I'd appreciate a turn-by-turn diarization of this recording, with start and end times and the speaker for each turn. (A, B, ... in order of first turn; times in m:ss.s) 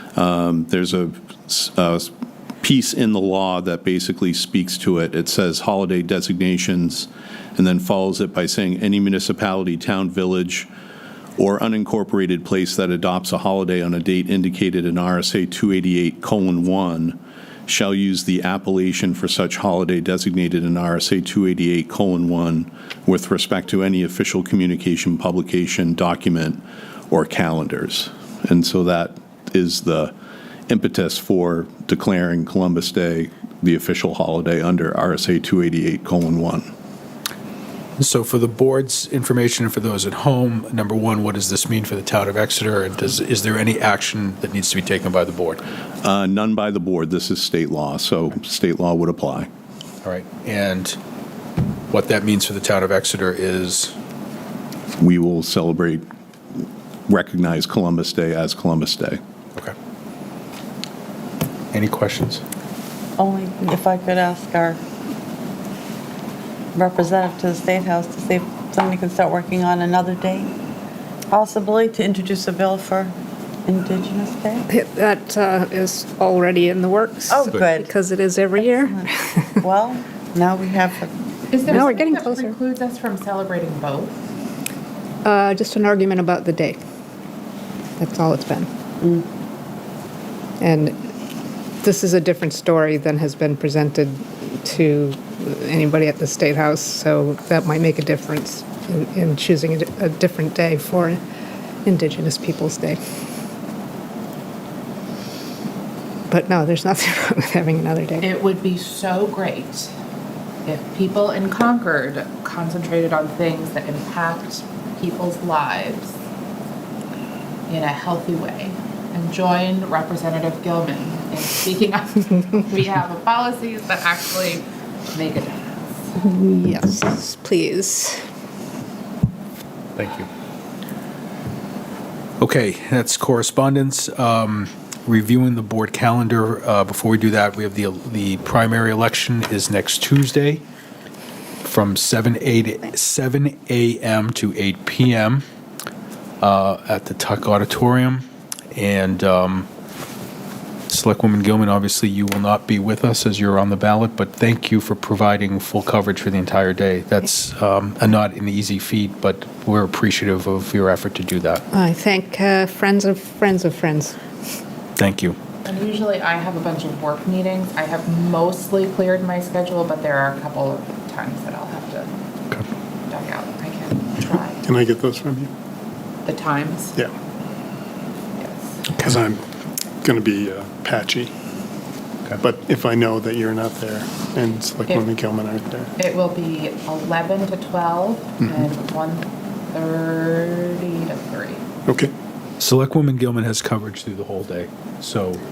0:00.2-0:02.1 A
0:02.6-0:10.7 A
0:11.4-0:30.1 A
0:30.7-0:36.7 A
0:38.0-0:45.6 B
0:46.0-0:49.5 A
0:50.0-0:51.0 B
0:51.9-0:53.9 B
0:55.0-0:56.0 A
0:57.1-0:59.2 A
1:01.7-1:02.4 B
1:03.2-1:04.8 C
1:06.7-1:10.5 C
1:11.3-1:13.1 C
1:13.7-1:14.6 C
1:14.7-1:19.4 D
1:17.3-1:17.9 C
1:18.6-1:19.1 C
1:19.6-1:21.1 C
1:21.5-1:24.2 E
1:21.6-1:22.5 D
1:25.2-1:26.8 D
1:28.0-1:28.7 D
1:30.6-1:31.0 D
1:31.8-1:41.2 D
1:41.8-1:43.0 D
1:46.3-1:48.3 D
1:48.2-1:49.9 E
1:50.6-1:56.2 E
1:57.7-2:06.1 E
2:06.2-2:08.2 D
2:10.0-2:10.3 B
2:12.4-2:20.6 B
2:21.6-2:25.4 B
2:26.4-2:29.7 B
2:30.9-2:41.6 B
2:41.7-2:44.2 D
2:45.0-2:45.4 B
2:45.6-2:52.1 E
2:53.1-2:54.6 E
2:54.6-2:55.5 F
2:56.2-2:57.0 E
2:58.4-2:58.9 E
2:59.0-2:59.4 F
3:00.0-3:01.3 F
3:02.4-3:05.9 F
3:06.0-3:11.6 E
3:11.9-3:12.1 F
3:12.6-3:15.4 B